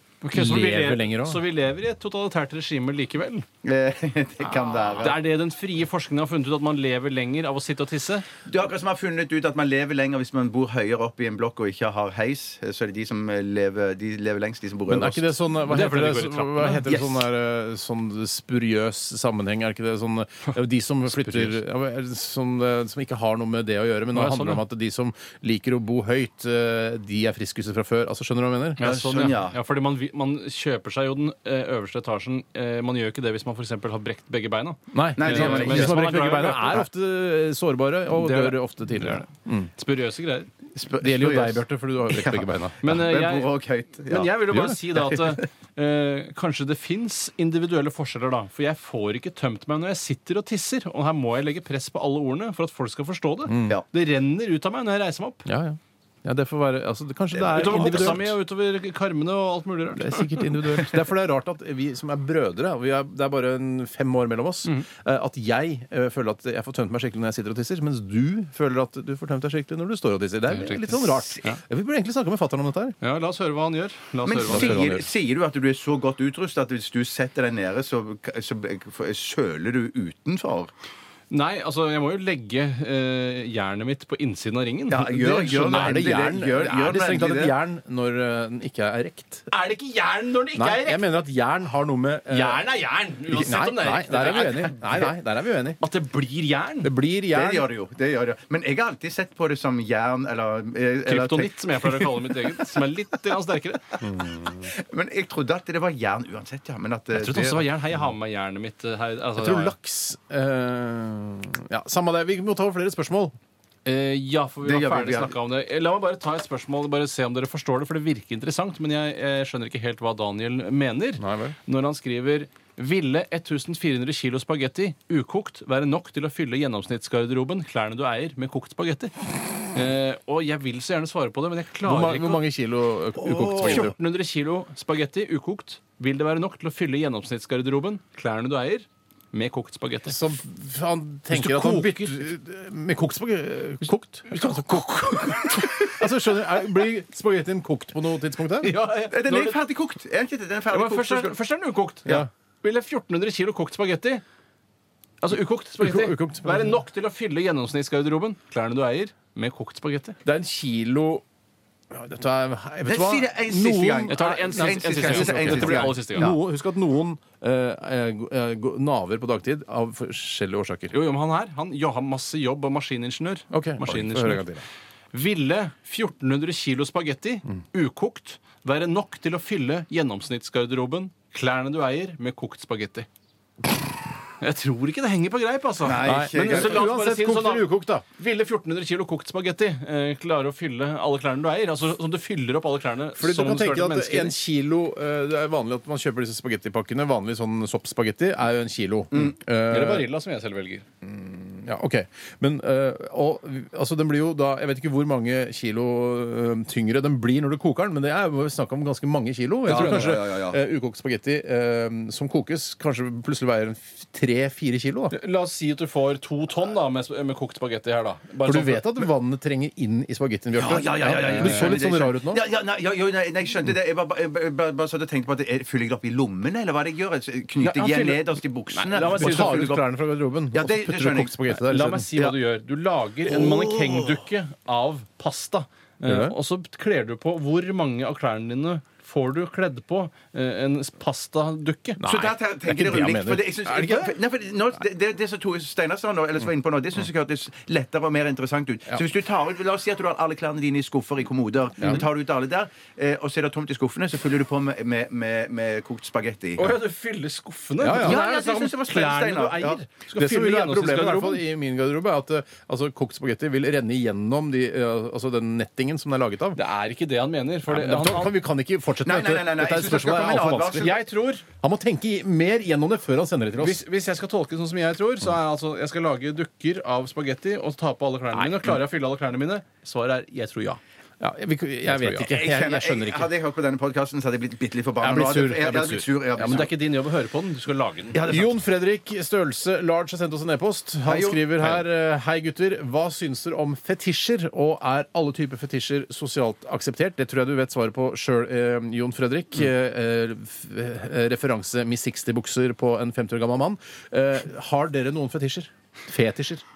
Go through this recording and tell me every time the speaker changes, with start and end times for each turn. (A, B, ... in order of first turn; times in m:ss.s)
0:00.2-0:03.4 A
0:00.3-0:01.4 B
0:03.6-0:05.2 C
0:05.0-0:08.3 A
0:08.4-0:15.3 C
0:14.9-0:28.9 B
0:15.7-0:16.9 A
0:16.9-0:17.2 C
0:21.1-0:21.6 A
0:24.1-0:24.6 A
0:28.8-0:36.8 A
0:28.8-0:29.6 C
0:34.9-0:39.7 B
0:35.2-0:36.0 C
0:38.1-0:40.5 A
0:40.7-0:45.4 C
0:41.0-0:42.9 B
0:42.8-0:43.5 A
0:44.1-0:55.5 A
0:44.5-0:44.8 B
0:53.5-0:53.8 B
0:55.4-0:58.3 B
0:57.5-1:00.8 A
0:57.7-0:58.0 C
0:59.9-1:13.0 B
1:10.5-1:11.6 A
1:13.0-1:14.9 A
1:14.2-1:20.7 C
1:14.5-1:15.1 B
1:21.3-1:26.0 A
1:24.9-1:27.6 C
1:25.1-1:29.5 B
1:29.5-1:31.0 A
1:30.6-1:32.7 B
1:32.3-1:35.0 A
1:33.3-1:35.8 B
1:35.8-1:36.9 A
1:36.8-1:37.7 B
1:37.3-1:42.8 C
1:41.0-1:44.0 A
1:44.0-1:44.4 B
1:44.1-1:47.7 C
1:47.1-1:49.7 A
1:49.4-1:53.3 B
1:53.8-2:09.1 A
1:54.6-1:55.4 C
2:01.2-2:01.6 B
2:09.7-2:12.4 A
2:11.8-2:14.0 B
2:13.2-2:13.9 C
2:13.5-2:20.2 A
2:20.1-2:28.7 B
2:21.3-2:22.3 A
2:24.3-2:25.9 A
2:25.5-2:25.9 C
2:28.6-2:29.6 A
2:29.1-2:31.4 C
2:30.7-2:34.2 A
2:35.2-2:40.2 A
2:35.8-2:36.8 B
2:40.2-2:41.2 B
2:41.9-2:50.9 B
2:42.8-2:46.4 C
2:44.1-2:46.3 A
2:50.9-2:54.5 A
2:53.5-2:54.6 B
2:55.1-3:03.1 A
3:04.4-3:14.3 A
3:05.8-3:06.8 C
3:06.0-3:08.0 B
3:13.2-3:20.1 B
3:19.7-3:20.8 A
3:21.0-3:35.1 B
3:29.6-3:30.6 C
3:35.1-3:38.9 A
3:38.4-3:42.4 B
3:40.6-3:49.9 C
3:41.1-3:41.8 A
3:47.6-3:49.7 A
3:49.1-3:52.1 B
3:50.5-3:51.3 C
3:51.6-4:02.0 A
3:53.3-3:54.2 C
3:56.0-3:56.3 B
4:02.0-4:04.2 B
4:02.0-4:16.8 C
4:11.8-4:12.0 B
4:16.6-4:21.4 A
4:17.8-4:18.2 B
4:17.9-4:19.8 C
4:20.2-4:26.6 B
4:26.5-4:28.3 A
4:27.7-4:30.9 B
4:29.0-4:31.0 C
4:30.7-4:31.4 A
4:31.6-4:33.8 B
4:33.6-4:40.8 A
4:38.3-4:38.8 B
4:41.2-4:43.3 B
4:41.8-4:42.3 A
4:42.2-4:46.7 C
4:45.0-4:46.1 B
4:46.3-4:48.2 A
4:48.1-4:48.5 C
4:48.3-5:06.6 B
4:51.0-4:51.8 C